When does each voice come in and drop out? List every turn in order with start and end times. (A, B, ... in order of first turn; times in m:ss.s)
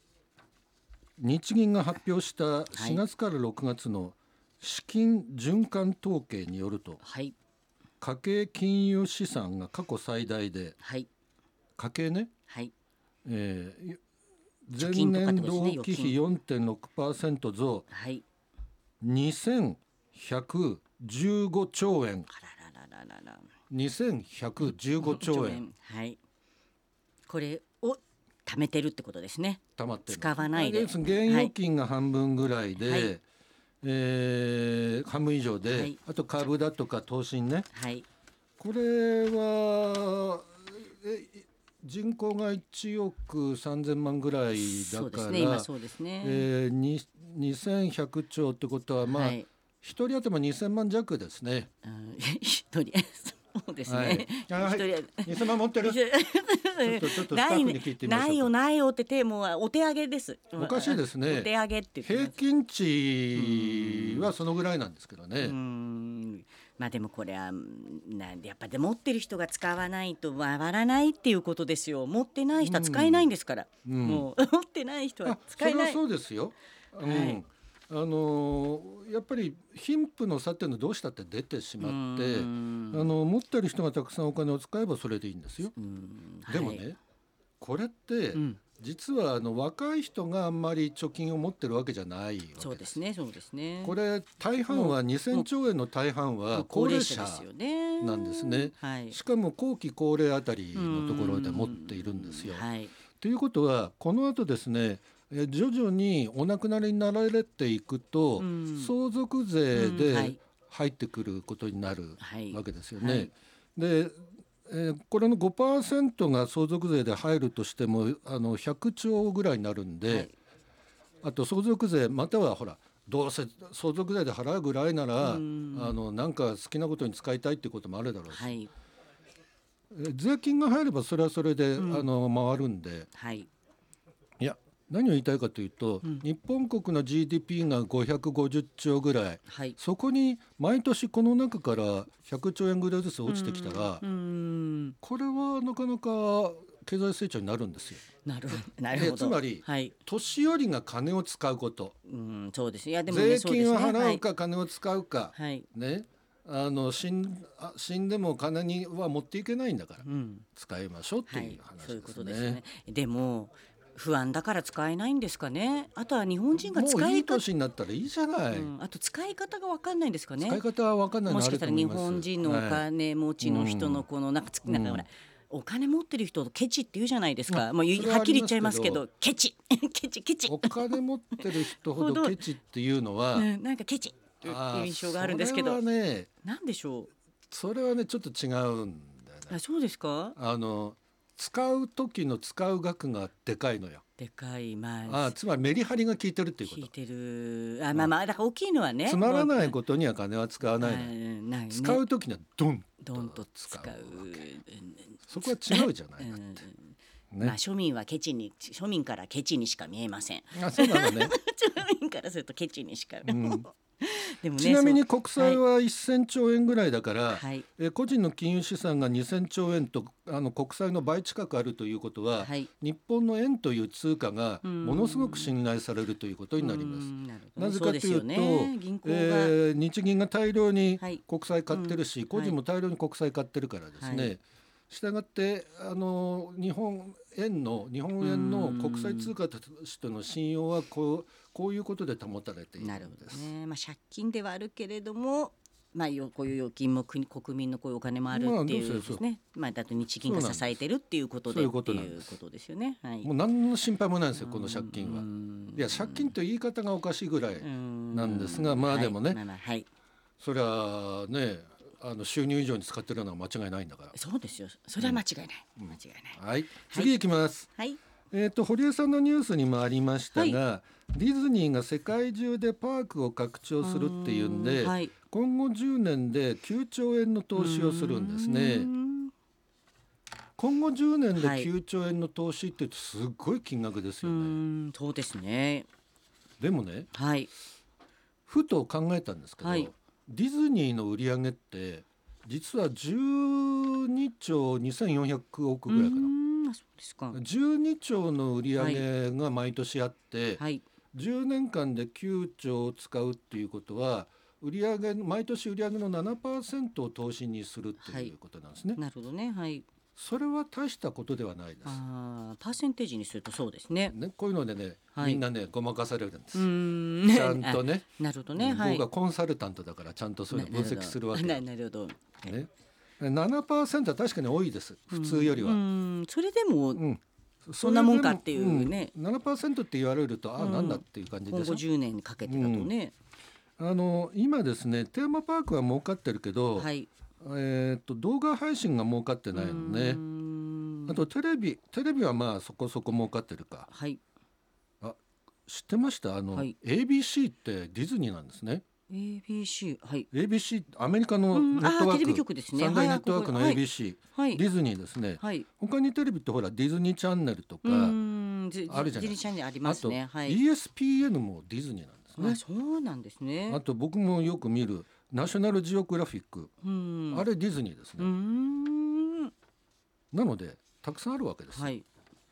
0:01.2-0:07.0 A
0:02.7-0:03.0 B
0:07.0-0:07.3 B
0:08.0-0:10.8 A
0:10.8-0:11.1 B
0:11.8-0:12.3 A
0:12.5-0:12.7 B
0:13.2-0:14.0 A
0:14.6-0:17.8 A
0:14.8-0:16.2 B
0:17.9-0:18.2 B
0:19.0-0:22.3 A
0:22.3-0:23.5 B
0:23.7-0:25.6 A
0:24.6-0:26.2 B
0:27.3-0:31.5 B
0:29.8-0:33.2 A
0:32.8-0:33.1 B
0:33.8-0:37.7 A
0:37.7-0:38.0 B
0:38.6-0:45.7 A
0:44.5-0:46.5 B
0:46.2-0:51.7 A
0:49.0-0:49.5 B
0:51.8-1:02.3 B
0:53.9-0:56.0 A
0:56.8-0:58.5 A
1:00.6-1:01.5 A
1:02.0-1:05.6 A
1:03.3-1:04.3 B
1:05.4-1:16.0 B
1:12.6-1:13.3 A
1:13.8-1:14.3 A
1:15.2-1:25.7 A
1:17.0-1:17.4 B
1:21.8-1:23.1 B
1:25.8-1:26.9 B
1:26.5-1:27.0 A
1:27.6-1:33.0 A
1:28.3-1:28.6 B
1:32.6-1:34.0 B
1:33.8-1:37.5 A
1:34.7-1:35.5 B
1:36.5-1:39.2 B
1:38.0-1:42.6 A
1:40.7-1:42.9 B
1:43.2-2:00.3 A
1:48.4-1:48.9 B
1:49.7-1:50.4 B
1:52.2-1:53.3 B
2:00.1-2:00.3 B
2:01.2-2:08.6 A
2:05.2-2:06.0 B
2:08.3-2:08.7 B
2:09.9-2:13.1 A
2:11.8-2:12.1 B
2:13.2-2:13.5 B
2:14.4-2:24.0 A
2:19.5-2:19.8 B
2:23.2-2:25.0 B
2:25.0-2:28.0 A
2:28.2-2:29.9 B
2:28.9-2:31.9 A
2:32.1-2:34.2 B
2:33.1-2:42.6 A
2:35.3-2:35.7 B
2:40.0-2:40.4 B
2:41.3-2:47.4 B
2:46.7-2:48.7 A
2:48.5-2:50.6 B
2:50.4-2:52.8 A
2:51.2-3:02.4 B
2:53.4-2:54.1 A
2:54.7-2:55.0 A
2:57.5-2:59.0 A
3:00.5-3:03.5 A
3:03.3-3:05.8 B
3:04.4-3:06.3 A
3:06.4-3:07.1 B
3:07.5-3:09.6 A
3:09.5-3:10.4 B
3:10.4-3:14.0 A
3:14.2-3:15.4 B
3:15.1-3:16.9 A
3:16.7-3:19.8 B
3:19.1-3:21.1 A
3:20.7-3:22.0 B
3:21.7-3:24.4 A
3:23.0-3:35.6 B
3:25.3-3:26.6 A
3:27.3-3:27.6 A
3:30.5-3:31.4 A
3:33.2-3:33.7 A
3:34.6-4:03.5 A
3:37.3-3:37.7 B
3:42.4-3:42.7 B
3:44.6-3:45.5 B
3:46.6-3:49.6 B
3:51.0-3:52.6 B
3:54.0-3:54.3 B
3:58.2-3:59.3 B
4:02.8-4:13.3 B
4:08.3-4:09.2 A
4:10.2-4:10.7 A
4:11.5-4:12.3 A
4:13.2-4:19.4 A
4:14.4-4:16.3 B
4:17.6-4:19.9 B
4:20.4-4:24.1 A
4:24.1-4:27.1 B
4:25.8-4:27.7 A
4:28.3-4:38.9 A
4:33.8-4:35.1 B
4:37.6-4:39.3 B
4:40.6-4:44.6 A
4:41.3-4:41.7 B
4:44.2-4:45.9 B
4:46.6-4:47.1 A
4:47.1-4:47.5 B
4:48.5-4:56.3 A
4:49.6-4:49.9 B
4:55.9-4:57.4 B
4:57.3-5:00.6 A
4:58.7-4:59.0 B
5:00.6-5:00.8 B
5:01.1-5:09.0 A
5:08.0-5:08.3 B
5:08.9-5:09.8 B
5:10.2-5:12.0 A
5:11.8-5:14.1 B
5:14.1-5:16.7 A
5:15.1-5:15.4 B
5:16.5-5:19.0 B
5:17.2-5:21.6 A
5:20.5-5:22.5 B
5:22.4-5:25.8 A
5:25.1-5:27.0 B
5:26.9-5:31.8 A
5:27.8-5:29.1 B
5:30.6-5:33.1 B
5:32.4-5:32.9 A
5:33.8-5:36.9 A
5:36.8-5:37.1 B
5:37.4-5:40.2 A
5:39.5-5:41.2 B
5:41.1-5:43.9 A
5:43.9-5:44.2 B
5:45.0-5:48.8 A
5:49.1-5:50.3 B
5:50.3-5:58.2 A
5:51.5-5:53.8 B
5:54.3-5:54.6 B
5:55.4-5:55.7 B
5:57.8-6:00.6 B
5:58.9-6:02.6 A
6:02.4-6:03.8 B
6:03.7-6:06.7 A
6:06.8-6:07.4 B
6:07.3-6:08.3 A
6:08.2-6:09.5 B
6:10.3-6:11.9 A
6:11.7-6:12.0 B